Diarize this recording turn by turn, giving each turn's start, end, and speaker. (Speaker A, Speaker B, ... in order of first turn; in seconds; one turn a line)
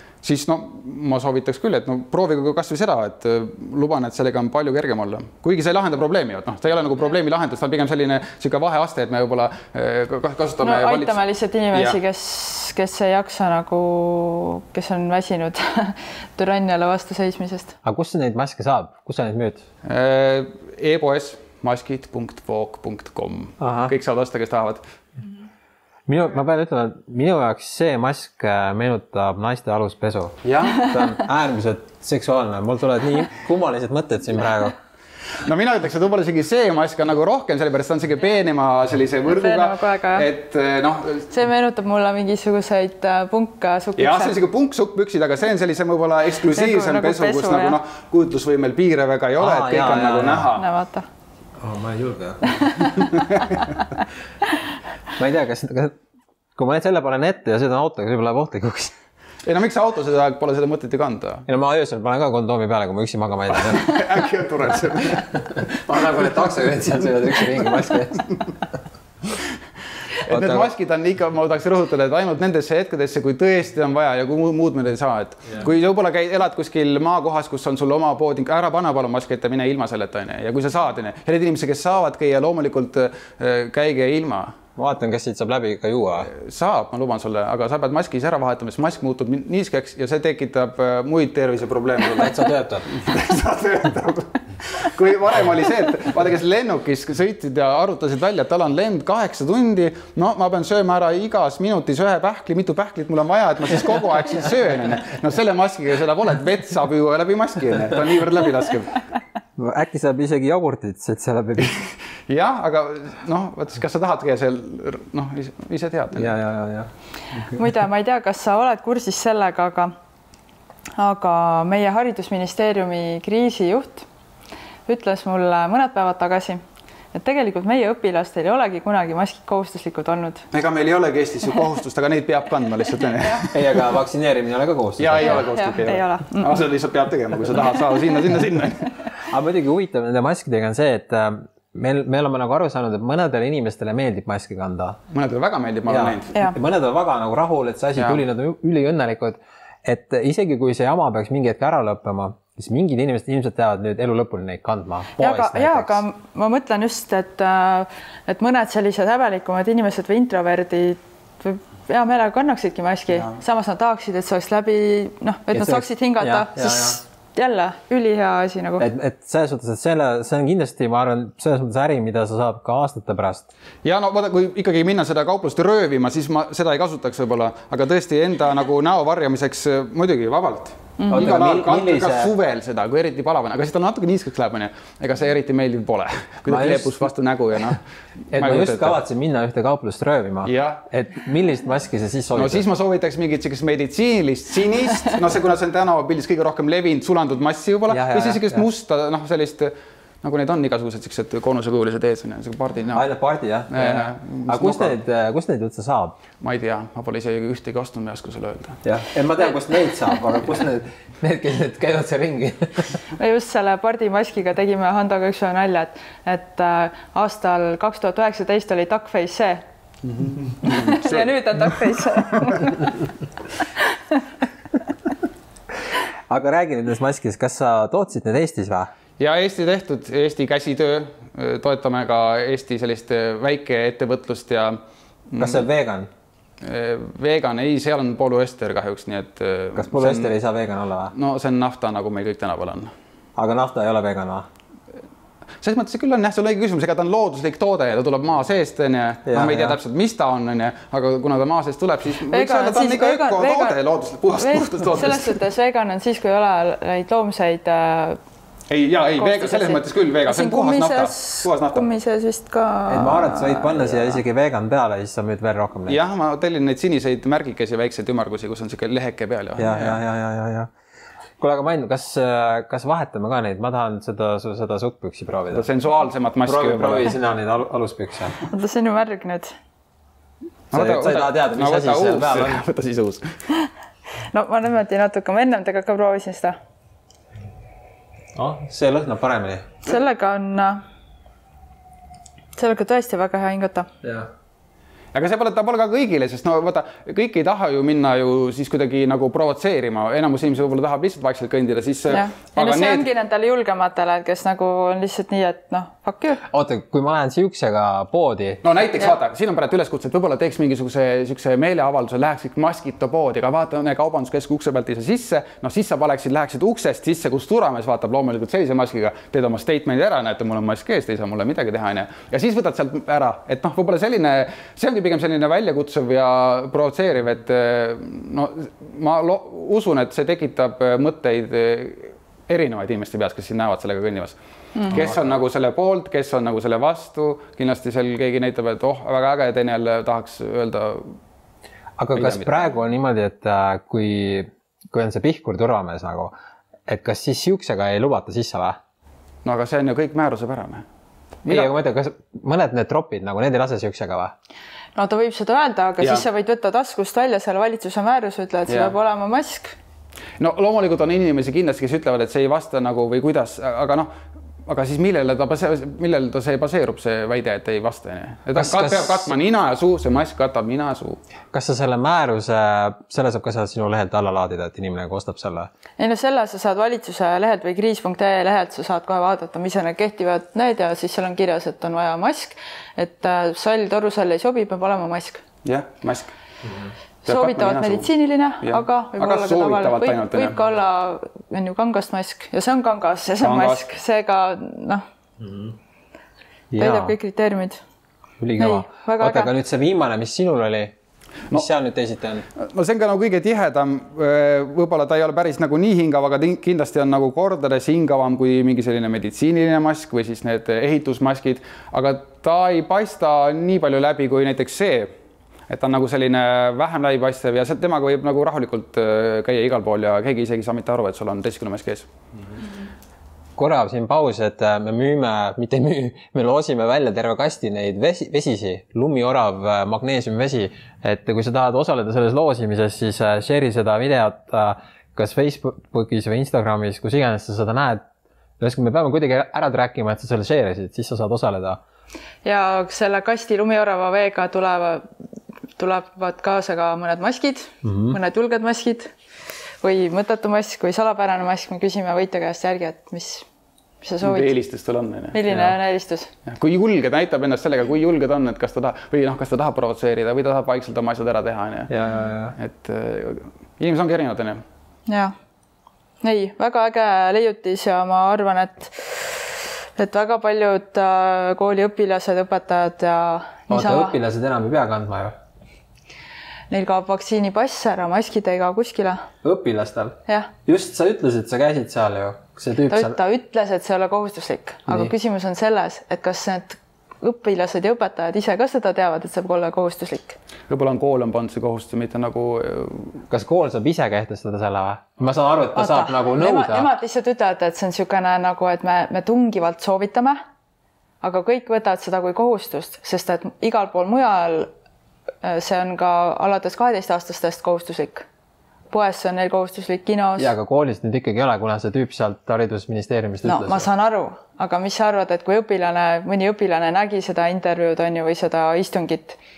Speaker A: 0.2-11.2
Speaker B: 10.6-17.7
Speaker A: 11.7-12.0
Speaker C: 17.8-19.6
Speaker A: 19.8-24.8
Speaker C: 23.6-23.9
Speaker C: 26.1-34.8
Speaker A: 30.4-31.0
Speaker A: 35.4-41.3
Speaker B: 39.2-40.3
Speaker B: 41.3-44.4
Speaker A: 44.0-50.6
Speaker B: 46.4-47.8
Speaker C: 49.4-50.5
Speaker B: 50.5-51.0
Speaker C: 51.6-52.7
Speaker C: 55.1-55.9
Speaker C: 56.5-58.9
Speaker A: 59.4-61.4
Speaker C: 61.5-64.0
Speaker A: 63.6-65.4
Speaker C: 65.4-68.3
Speaker A: 70.2-84.5
Speaker C: 70.3-70.7
Speaker C: 84.8-86.3
Speaker A: 86.3-109.0
Speaker C: 92.1-92.8
Speaker C: 109.5-111.8
Speaker A: 112.3-116.3
Speaker C: 116.1-116.9
Speaker B: 117.5-119.9
Speaker B: 121.0-124.0
Speaker B: 124.9-126.6
Speaker B: 127.1-130.4
Speaker A: 130.5-133.7
Speaker C: 133.5-135.4
Speaker A: 135.0-138.9
Speaker B: 135.2-136.6
Speaker C: 139.3-145.0
Speaker A: 145.1-146.3
Speaker C: 145.9-156.0
Speaker A: 147.9-148.2
Speaker B: 155.2-168.8
Speaker C: 165.5-167.0
Speaker C: 168.8-173.5
Speaker A: 173.8-187.8
Speaker B: 181.0-181.3
Speaker C: 181.1-182.3
Speaker C: 186.5-187.0
Speaker C: 188.3-192.7
Speaker A: 188.3-189.0
Speaker A: 190.4-190.8
Speaker A: 192.3-203.0
Speaker C: 197.9-198.7
Speaker C: 202.9-206.2
Speaker A: 203.7-205.0
Speaker A: 206.4-208.8
Speaker C: 208.8-212.9
Speaker B: 213.2-219.6
Speaker A: 220.1-221.4
Speaker B: 220.6-222.9
Speaker C: 226.3-228.9
Speaker A: 229.2-234.8
Speaker A: 235.3-235.6
Speaker C: 235.4-236.1
Speaker A: 236.6-240.3
Speaker C: 239.8-241.1
Speaker A: 241.1-242.9
Speaker C: 243.3-244.5
Speaker A: 245.6-255.3
Speaker C: 249.2-249.8
Speaker B: 252.3-253.8
Speaker B: 254.3-258.2
Speaker A: 258.7-261.9
Speaker B: 259.1-263.8
Speaker C: 262.9-266.0
Speaker A: 263.7-264.2
Speaker A: 265.9-270.0
Speaker C: 269.6-270.7
Speaker C: 271.4-275.6
Speaker A: 275.5-277.1
Speaker C: 276.4-278.4
Speaker B: 278.5-279.5
Speaker A: 280.7-283.3
Speaker C: 280.7-282.6
Speaker B: 284.3-286.6
Speaker C: 288.3-289.7
Speaker B: 289.8-290.8
Speaker B: 292.6-293.9
Speaker C: 294.0-294.3
Speaker A: 295.1-303.1
Speaker B: 302.1-306.4
Speaker C: 306.5-308.6
Speaker A: 308.6-334.4
Speaker B: 334.7-335.1
Speaker A: 334.9-341.1
Speaker C: 342.0-346.3
Speaker A: 342.1-342.5
Speaker C: 346.9-348.8
Speaker A: 349.4-350.8
Speaker C: 351.4-354.3
Speaker A: 351.5-351.7
Speaker B: 354.9-359.7
Speaker A: 356.0-356.2
Speaker A: 358.7-358.9
Speaker A: 360.4-364.1
Speaker A: 364.7-371.2
Speaker C: 368.5-369.3
Speaker C: 371.5-375.7
Speaker B: 376.0-385.4
Speaker A: 385.6-386.3
Speaker B: 387.2-395.0
Speaker A: 387.2-388.1
Speaker A: 388.6-390.6
Speaker A: 393.4-393.9
Speaker C: 395.4-395.8
Speaker C: 396.7-397.2
Speaker B: 396.7-397.8
Speaker C: 398.4-400.9
Speaker B: 398.6-399.5
Speaker C: 401.5-402.4
Speaker A: 402.7-415.1
Speaker A: 415.7-422.1
Speaker C: 423.6-438.0
Speaker C: 438.6-441.8
Speaker B: 442.4-445.1
Speaker B: 445.8-449.1
Speaker C: 447.8-448.2
Speaker B: 449.8-453.4
Speaker B: 454.0-454.5
Speaker A: 454.2-455.4
Speaker B: 455.3-456.3
Speaker C: 455.5-455.8
Speaker A: 456.4-461.9
Speaker C: 461.9-462.5
Speaker A: 462.6-464.6
Speaker B: 465.1-465.3
Speaker B: 466.2-474.2
Speaker C: 473.7-475.3
Speaker B: 476.7-479.2
Speaker C: 479.4-483.1
Speaker B: 480.2-480.5
Speaker B: 482.9-490.4
Speaker C: 484.9-485.1
Speaker A: 490.7-493.1
Speaker C: 493.3-496.9
Speaker B: 495.7-500.4
Speaker B: 501.2-504.7
Speaker B: 505.4-508.2
Speaker B: 508.9-510.5
Speaker C: 510.4-513.9
Speaker B: 513.4-519.4